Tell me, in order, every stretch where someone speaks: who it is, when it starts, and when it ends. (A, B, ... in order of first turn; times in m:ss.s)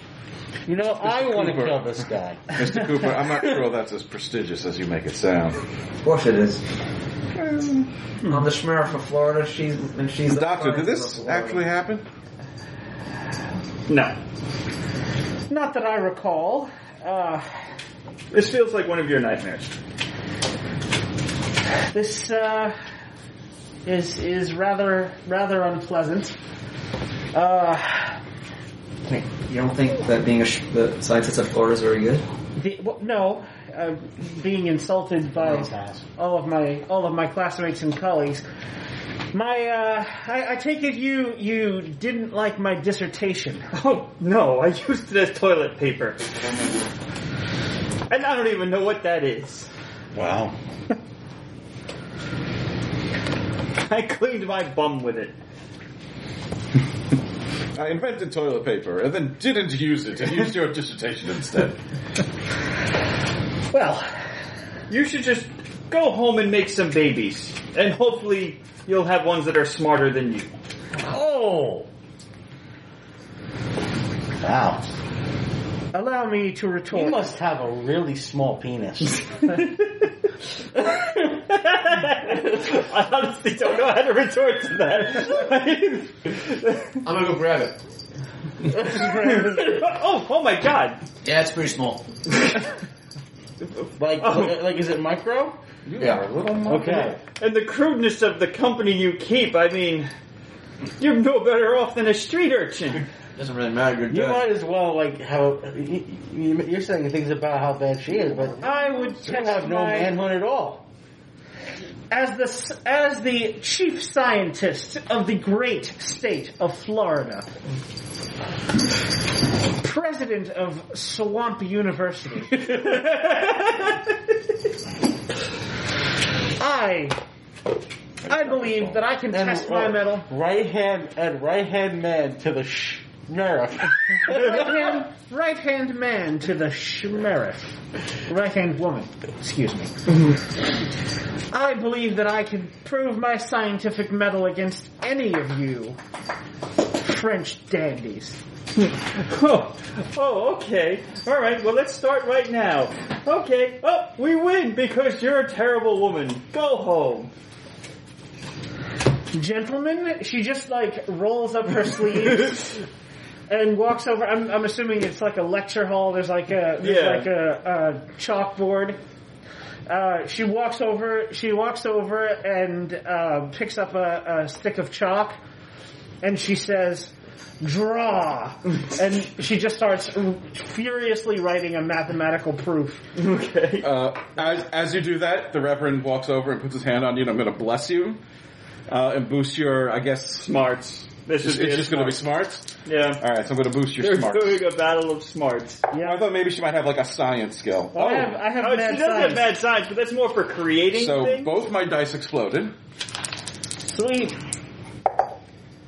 0:00.7-0:02.8 A
0:00.8-0:05.6 B
0:06.0-0:06.6 C
0:07.4-0:07.9 B
0:08.2-0:11.6 C
0:10.3-0:12.0 B
0:13.9-0:14.2 D
0:15.5-0:17.5 E
0:18.3-0:19.7 D
0:21.9-0:22.8 E
0:23.8-0:26.4 E
0:27.3-0:28.2 E
0:29.1-0:32.2 C
0:32.6-0:38.4 E
0:35.4-0:36.0 A
0:39.3-0:43.7 E
0:43.7-0:46.2 D
0:48.1-0:49.7 D
0:50.1-0:50.5 A
0:53.8-0:55.3 D
0:57.7-1:01.8 B
1:03.7-1:04.1 E
1:04.9-1:10.5 D
1:11.1-1:11.9 A
1:14.4-1:14.8 A
1:15.9-1:17.3 E
1:16.9-1:19.2 A
1:19.5-1:20.1 D
1:20.8-1:27.0 D
1:27.0-1:27.8 C
1:28.8-1:29.6 A
1:28.8-1:31.0 D
1:31.2-1:32.0 C
1:34.0-1:37.2 A
1:34.2-1:34.5 D
1:35.8-1:37.1 B
1:37.4-1:40.1 D
1:41.0-1:43.0 D
1:43.4-1:44.5 C
1:44.1-1:48.7 A
1:48.6-1:50.2 E
1:49.2-1:50.8 A
1:52.1-1:57.5 E
1:59.8-2:02.7 E
2:02.5-2:04.0 D
2:06.6-2:07.2 E
2:08.2-2:09.0 B
2:08.2-2:10.3 E
2:09.3-2:14.9 A
2:14.3-2:17.7 E
2:18.3-2:20.2 E
2:21.5-2:26.0 E
2:27.0-2:28.4 E
2:28.8-2:37.3 D
2:39.3-2:42.8 E
2:43.5-2:49.0 E
2:46.8-2:47.3 D
2:49.9-2:55.4 E
2:56.2-3:03.0 E
3:03.1-3:03.9 D
3:03.8-3:08.2 B
3:08.9-3:10.5 B
3:10.4-3:12.2 D
3:11.4-3:12.6 B
3:12.8-3:13.2 D
3:13.2-3:14.6 B
3:14.0-3:15.9 D
3:15.9-3:16.2 E
3:15.9-3:18.4 B
3:17.9-3:19.5 E
3:18.6-3:21.5 D
3:20.9-3:22.7 B
3:23.9-3:24.4 E